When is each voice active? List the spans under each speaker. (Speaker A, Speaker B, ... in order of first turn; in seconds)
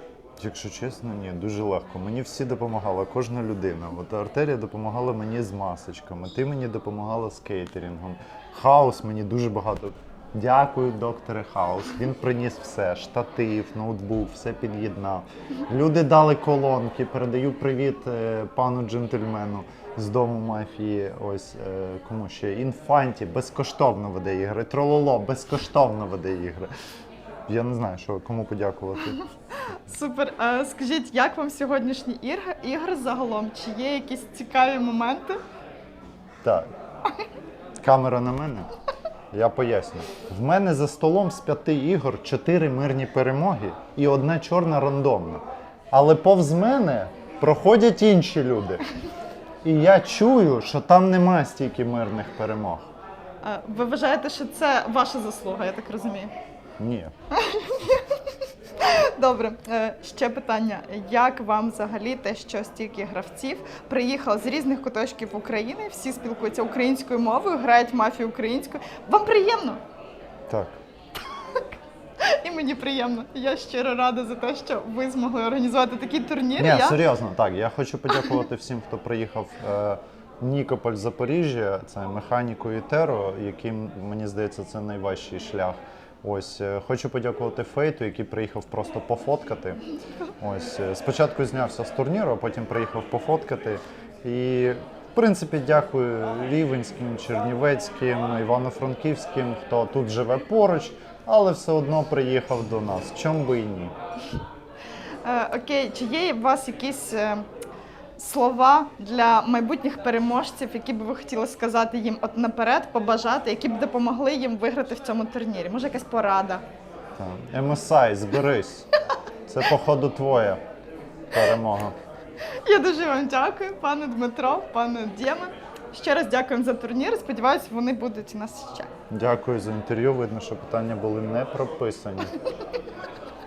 Speaker A: 0.4-26.7, 27.5-29.2, 36.4-36.7, 37.8-38.7, 39.3-48.8, 49.6-52.9, 56.8-57.1, 70.5-70.8, 76.6-89.8, 90.4-103.9, 117.2-118.9, 119.5-120.6, 121.3-121.9, 129.1-132.3
Speaker B: 29.7-35.4, 53.4-56.3, 57.3-58.2, 58.8-69.8, 72.2-77.0, 105.2-107.5, 108.2-116.6, 122.6-128.9